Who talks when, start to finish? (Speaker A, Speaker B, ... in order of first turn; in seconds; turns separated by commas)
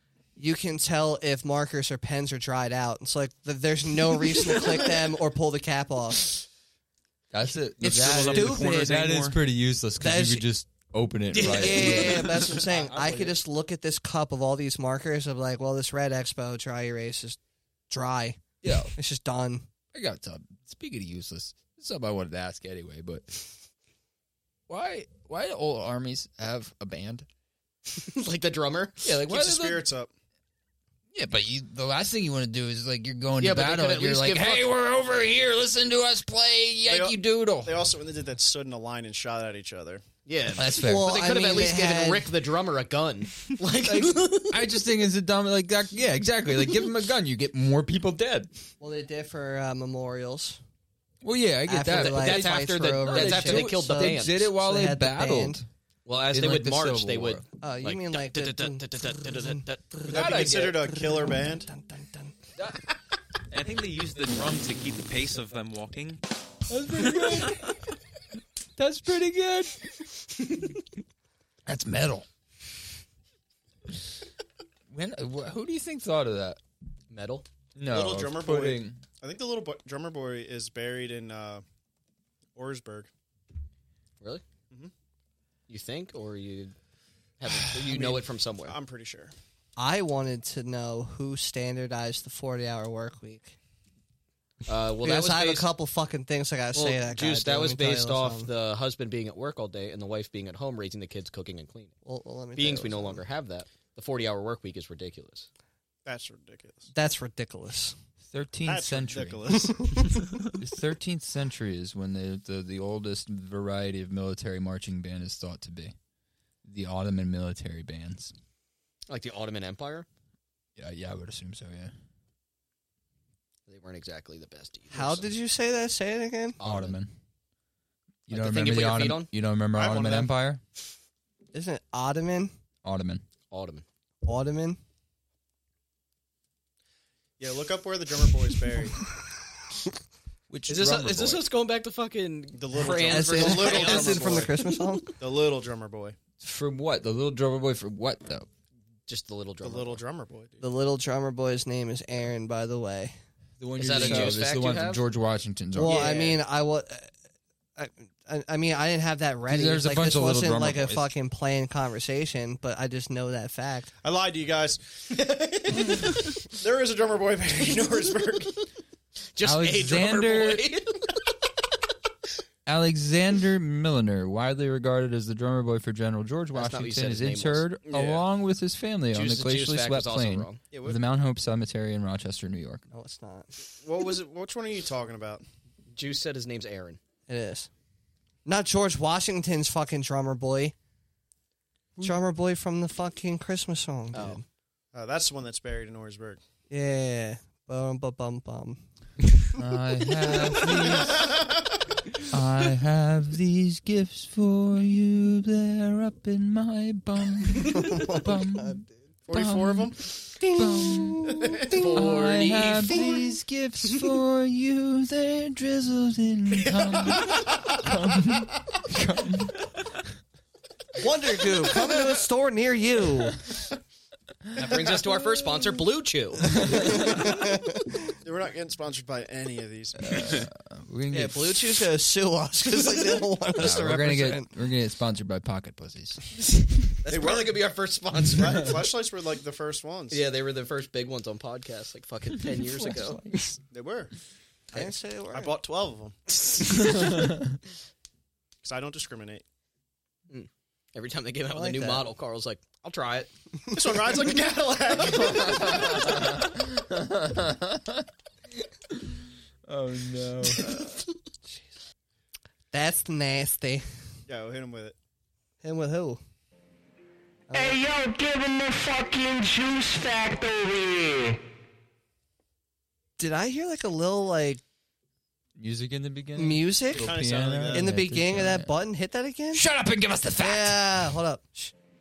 Speaker A: 0.4-6.4, Speaker B: 7.3-13.4, Speaker C: 7.8-9.4, Speaker A: 7.8-8.9, Speaker D: 8.2-8.7, Speaker A: 10.0-10.4, Speaker D: 11.3-12.5, Speaker A: 11.4-17.4, Speaker A: 17.9-19.7, Speaker B: 18.6-18.9, Speaker B: 19.9-23.5, Speaker B: 24.7-27.3, Speaker D: 27.9-29.1, Speaker B: 29.0-29.8, Speaker E: 29.1-30.1, Speaker B: 31.1-37.8, Speaker D: 33.4-34.7, Speaker E: 36.9-40.0, Speaker D: 40.2-44.6, Speaker B: 40.5-41.3, Speaker A: 40.7-42.3, Speaker B: 43.8-48.5, Speaker A: 48.8-50.6, Speaker B: 51.2-55.7, Speaker A: 51.7-55.6, Speaker D: 51.9-54.4, Speaker D: 56.0-60.6, Speaker B: 56.3-57.4, Speaker A: 57.6-59.6, Speaker B: 60.1-61.0, Speaker E: 60.1-61.7, Speaker A: 61.2-62.3, Speaker C: 63.5-66.2, Speaker B: 66.7-67.8, Speaker B: 68.8-69.9, Speaker B: 71.7-72.3, Speaker B: 74.9-76.6, Speaker D: 77.1-77.5, Speaker B: 77.8-79.0, Speaker E: 77.9-81.6, Speaker E: 82.5-83.1, Speaker D: 85.7-86.7, Speaker D: 87.4-88.8, Speaker E: 87.9-89.3, Speaker A: 89.8-93.5, Speaker D: 94.7-95.7, Speaker A: 95.0-98.5, Speaker D: 96.7-101.9, Speaker A: 102.0-103.2, Speaker D: 102.5-105.5, Speaker E: 106.0-106.9, Speaker A: 106.9-108.0, Speaker B: 108.2-109.7, Speaker E: 108.7-110.2, Speaker B: 110.5-115.9, Speaker B: 116.6-118.3, Speaker D: 119.1-120.1, Speaker B: 120.8-121.9, Speaker D: 123.7-125.3, Speaker A: 124.9-126.6, Speaker D: 126.6-127.0, Speaker B: 126.6-127.1, Speaker B: 128.3-130.6, Speaker D: 128.3-129.3, Speaker E: 129.7-130.3, Speaker A: 131.5-132.5, Speaker B: 132.8-133.2, Speaker D: 133.5-133.8, Speaker A: 134.2-134.8, Speaker E: 137.4-139.0, Speaker B: 140.5-141.4, Speaker D: 140.7-144.5, Speaker E: 142.5-144.5, Speaker A: 143.1-145.2, Speaker E: 145.2-146.2, Speaker B: 146.4-148.5, Speaker D: 149.1-150.0, Speaker E: 149.6-150.6, Speaker A: 150.6-153.1, Speaker B: 153.6-156.2, Speaker D: 153.8-155.0, Speaker A: 155.8-157.1, Speaker D: 155.8-156.4, Speaker A: 157.8-163.9, Speaker B: 159.5-161.1, Speaker E: 164.0-168.7, Speaker D: 169.3-171.2, Speaker B: 169.4-170.6, Speaker B: 172.7-182.8, Speaker D: 176.5-177.6, Speaker E: 177.8-178.2, Speaker D: 179.1-180.6, Speaker E: 180.7-181.0, Speaker A: 182.9-183.5, Speaker E: 183.7-185.4, Speaker D: 185.9-187.0, Speaker A: 187.3-187.7, Speaker A: 188.4-190.7, Speaker A: 192.0-194.4, Speaker D: 194.1-194.4, Speaker E: 194.9-196.4, Speaker A: 196.7-198.8, Speaker B: 199.5-201.3, Speaker A: 200.2-200.8, Speaker E: 201.0-201.8, Speaker B: 202.3-211.3, Speaker A: 207.7-209.0, Speaker E: 209.3-210.2, Speaker A: 210.4-212.1, Speaker E: 211.3-211.8, Speaker D: 211.7-213.2, Speaker B: 211.9-219.7, Speaker E: 216.6-217.8, Speaker A: 221.0-223.5, Speaker D: 224.6-226.7, Speaker B: 226.6-227.1, Speaker A: 226.6-228.1, Speaker E: 228.2-230.4, Speaker B: 230.0-231.8, Speaker A: 231.1-234.5, Speaker B: 233.5-236.2, Speaker D: 236.8-238.6, Speaker E: 237.1-237.6, Speaker E: 238.2-240.2, Speaker D: 240.1-243.2, Speaker B: 242.4-243.6, Speaker E: 243.7-244.1, Speaker A: 244.7-245.5, Speaker E: 244.8-246.2, Speaker D: 246.5-247.0, Speaker B: 246.7-247.6, Speaker E: 248.6-249.4, Speaker D: 250.3-253.3, Speaker A: 251.5-252.1, Speaker E: 253.7-256.2, Speaker B: 255.1-258.1, Speaker B: 259.6-260.9, Speaker A: 262.7-263.8, Speaker E: 264.3-265.0, Speaker A: 265.6-266.2, Speaker A: 267.5-267.8, Speaker F: 267.5-271.4, Speaker A: 273.2-274.6, Speaker B: 275.6-278.7, Speaker A: 276.4-277.1, Speaker E: 276.9-277.9, Speaker A: 277.7-279.6, Speaker B: 279.5-281.1, Speaker A: 280.4-281.7